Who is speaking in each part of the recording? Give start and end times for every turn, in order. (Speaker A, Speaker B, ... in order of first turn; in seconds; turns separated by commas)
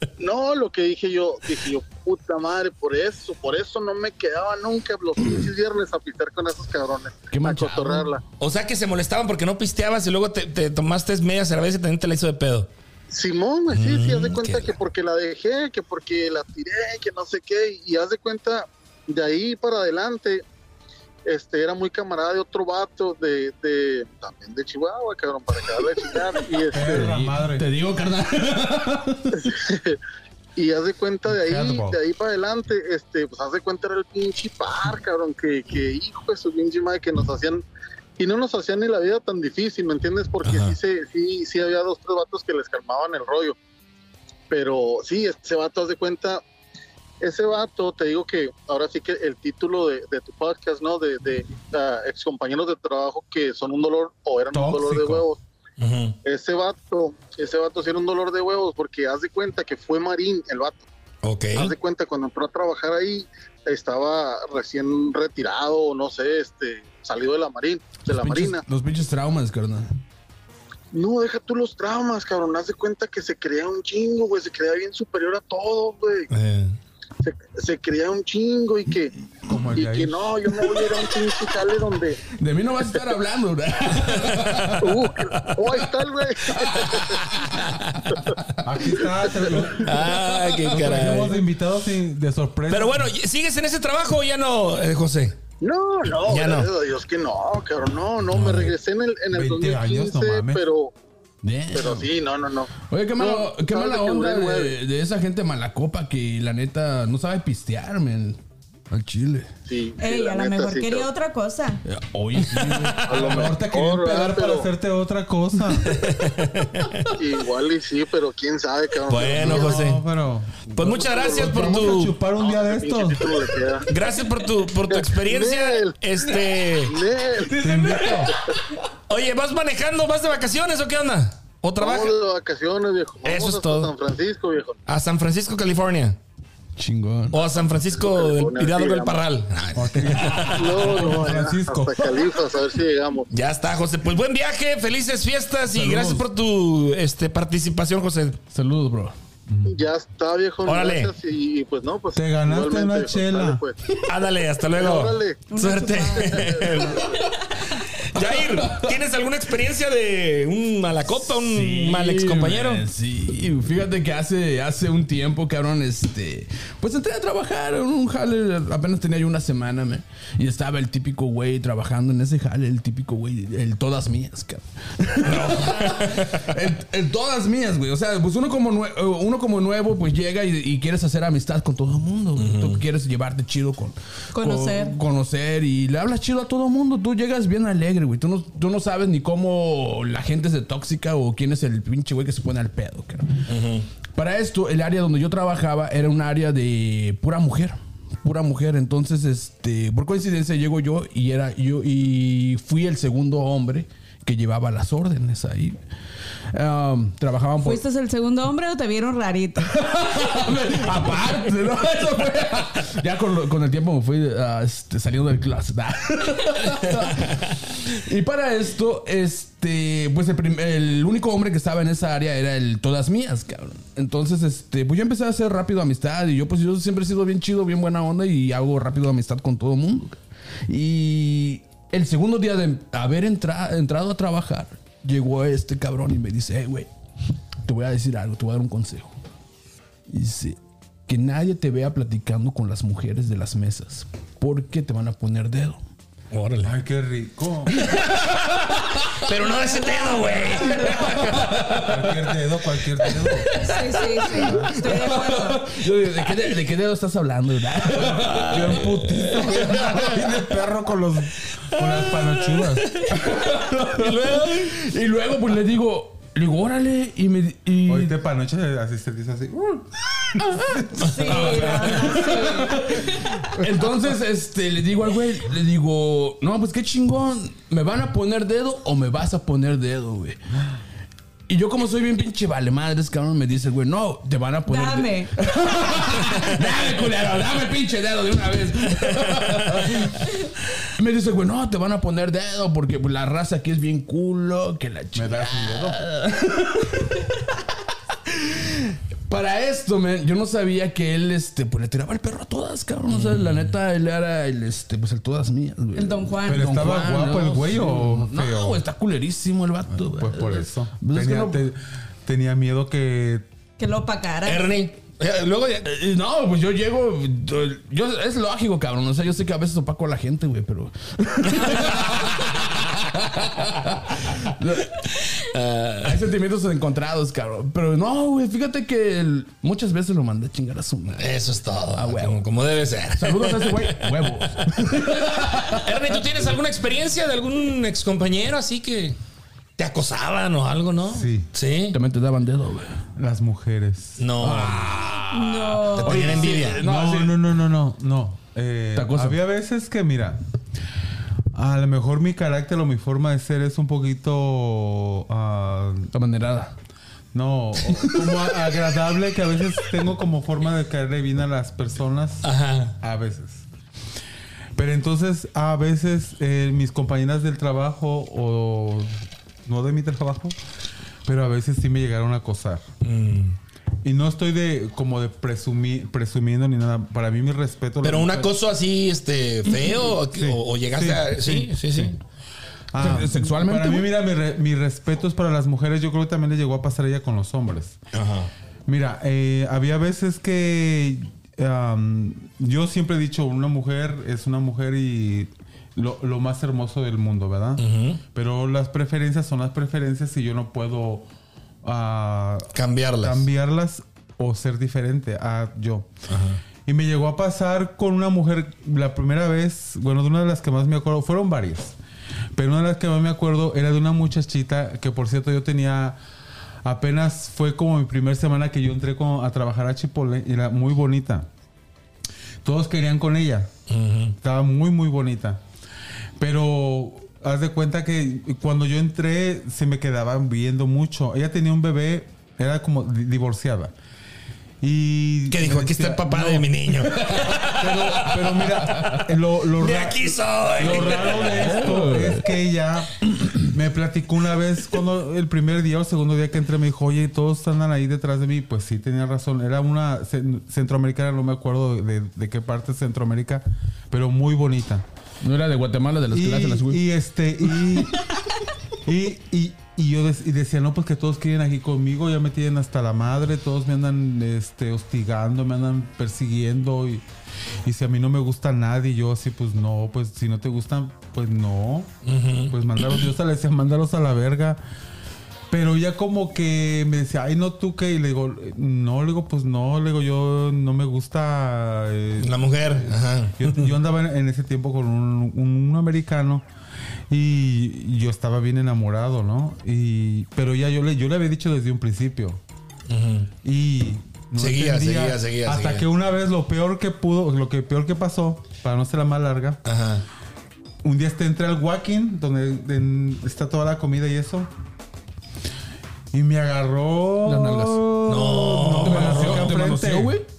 Speaker A: 0.2-8.2, Speaker B: 7.3-8.1, Speaker C: 8.4-12.7, Speaker A: 13.1-20.4, Speaker C: 13.7-14.8, Speaker A: 21.3-27.1, Speaker B: 26.7-29.4, Speaker D: 26.7-27.7, Speaker A: 29.3-30.0, Speaker A: 30.6-37.6, Speaker D: 31.3-32.0, Speaker A: 38.2-43.5, Speaker C: 40.4-40.7, Speaker A: 44.5-46.4, Speaker A: 47.2-55.4, Speaker D: 54.5-55.2, Speaker C: 55.8-56.2, Speaker A: 56.2-60.9, Speaker C: 61.2-61.7, Speaker A: 61.5-68.6, Speaker B: 68.0-69.9, Speaker A: 70.9-76.3, Speaker C: 76.3-76.7, Speaker A: 77.2-79.1, Speaker D: 79.5-80.3, Speaker A: 79.8-82.2, Speaker B: 82.4-84.8, Speaker C: 84.0-84.7, Speaker A: 84.8-87.5, Speaker C: 87.6-87.9, Speaker A: 88.1-88.3, Speaker D: 88.6-90.1, Speaker A: 89.2-89.7, Speaker C: 89.8-91.4, Speaker D: 90.7-93.0, Speaker B: 90.7-91.2, Speaker C: 92.7-95.3, Speaker A: 95.6-100.9, Speaker C: 96.2-96.7, Speaker C: 98.3-98.7, Speaker D: 99.3-100.6, Speaker B: 101.4-102.1, Speaker A: 101.7-104.7, Speaker B: 102.8-108.4, Speaker B: 108.9-109.5, Speaker A: 109.7-111.0, Speaker E: 110.0-111.8, Speaker B: 111.8-113.5, Speaker C: 112.5-113.0, Speaker A: 113.0-114.7, Speaker D: 113.2-115.9, Speaker C: 115.8-117.1, Speaker A: 117.2-119.8, Speaker C: 119.1-120.0, Speaker D: 119.4-123.3, Speaker C: 120.7-122.2, Speaker A: 121.1-123.8, Speaker C: 123.9-127.0, Speaker A: 124.9-128.4, Speaker D: 127.5-128.3, Speaker C: 129.1-132.1, Speaker A: 131.8-134.8, Speaker C: 133.2-133.9, Speaker C: 134.9-136.2, Speaker B: 136.8-137.4, Speaker C: 137.3-141.1, Speaker A: 137.9-139.2, Speaker D: 139.7-142.2, Speaker A: 140.5-143.3, Speaker C: 143.3-148.4, Speaker B: 145.7-146.2, Speaker B: 148.5-149.1, Speaker D: 149.5-149.7, Speaker A: 149.7-153.8, Speaker C: 150.6-151.1, Speaker D: 152.2-153.6, Speaker C: 154.1-157.1, Speaker A: 154.8-155.5, Speaker E: 155.5-156.5, Speaker A: 156.1-156.9, Speaker C: 157.8-162.8, Speaker B: 158.2-158.9, Speaker B: 161.3-193.3, Speaker C: 175.2-176.5, Speaker C: 182.4-182.8, Speaker E: 184.3-185.0, Speaker C: 193.5-193.8, Speaker B: 194.1-205.8, Speaker B: 206.5-207.8, Speaker E: 207.6-209.7, Speaker B: 209.6-236.9, Speaker B: 237.6-239.1, Speaker B: 240.1-245.8, Speaker C: 246.3-246.8, Speaker D: 246.6-247.8, Speaker C: 247.8-248.5, Speaker C: 249.2-251.5, Speaker E: 249.4-251.2, Speaker B: 250.8-252.0, Speaker D: 251.8-253.5, Speaker E: 253.5-255.6, Speaker D: 254.3-254.9, Speaker B: 254.5-260.2, Speaker C: 258.2-260.2, Speaker D: 258.5-263.0, Speaker C: 261.8-263.3, Speaker B: 263.1-268.1, Speaker C: 263.9-264.7, Speaker D: 267.9-271.6, Speaker B: 270.8-280.4, Speaker E: 271.0-273.4, Speaker C: 271.0-271.8, Speaker B: 281.5-290.2, Speaker E: 284.7-285.3, Speaker C: 286.6-287.4, Speaker C: 289.0-289.9, Speaker B: 291.0-297.3, Speaker D: 295.1-296.0, Speaker B: 298.3-311.6, Speaker C: 303.1-303.7, Speaker E: 305.9-306.8, Speaker D: 306.5-308.8, Speaker D: 309.9-313.4, Speaker E: 313.8-314.7, Speaker C: 314.4-315.9, Speaker B: 315.9-324.9, Speaker C: 321.4-322.6, Speaker C: 325.4-326.2, Speaker B: 326.0-331.2, Speaker C: 331.2-334.5, Speaker B: 331.9-332.4, Speaker B: 333.1-336.4, Speaker C: 335.8-339.1, Speaker C: 339.8-342.0, Speaker D: 341.1-341.5, Speaker B: 341.9-343.0, Speaker D: 343.2-344.2, Speaker C: 344.2-345.2, Speaker B: 344.4-347.3, Speaker E: 345.3-346.6, Speaker C: 346.0-346.8, Speaker D: 346.8-350.4, Speaker B: 348.9-349.4, Speaker D: 351.5-356.1, Speaker B: 356.1-356.8, Speaker D: 357.3-362.5, Speaker B: 357.9-358.3, Speaker C: 362.4-362.9, Speaker D: 363.0-363.6, Speaker D: 364.8-370.6, Speaker D: 371.2-372.8, Speaker C: 373.0-373.6, Speaker D: 374.0-378.5, Speaker C: 378.0-382.2, Speaker D: 380.3-382.1, Speaker D: 382.9-388.0, Speaker B: 383.0-384.0, Speaker C: 388.1-388.5, Speaker D: 388.9-401.3, Speaker C: 397.8-398.2, Speaker D: 401.8-406.1, Speaker C: 402.7-403.4, Speaker C: 406.3-406.6, Speaker D: 406.9-411.9, Speaker D: 412.5-416.2, Speaker D: 416.8-421.5, Speaker D: 422.6-423.7, Speaker C: 423.9-424.3, Speaker D: 424.4-425.6, Speaker D: 426.4-433.9, Speaker D: 434.8-436.7, Speaker C: 435.5-439.1, Speaker D: 437.7-443.1, Speaker C: 439.8-441.9, Speaker B: 440.9-442.4, Speaker D: 443.6-455.1, Speaker B: 455.4-457.0, Speaker D: 456.3-458.2, Speaker D: 459.0-467.2, Speaker D: 467.8-472.1, Speaker C: 472.2-472.7, Speaker D: 472.7-474.8, Speaker D: 475.7-486.6, Speaker C: 482.4-483.9, Speaker D: 487.3-492.6, Speaker C: 493.1-493.5, Speaker D: 493.6-499.8, Speaker C: 494.6-496.1, Speaker C: 499.8-500.2, Speaker D: 501.0-504.7, Speaker D: 506.3-510.4, Speaker B: 507.4-510.4, Speaker C: 508.3-509.8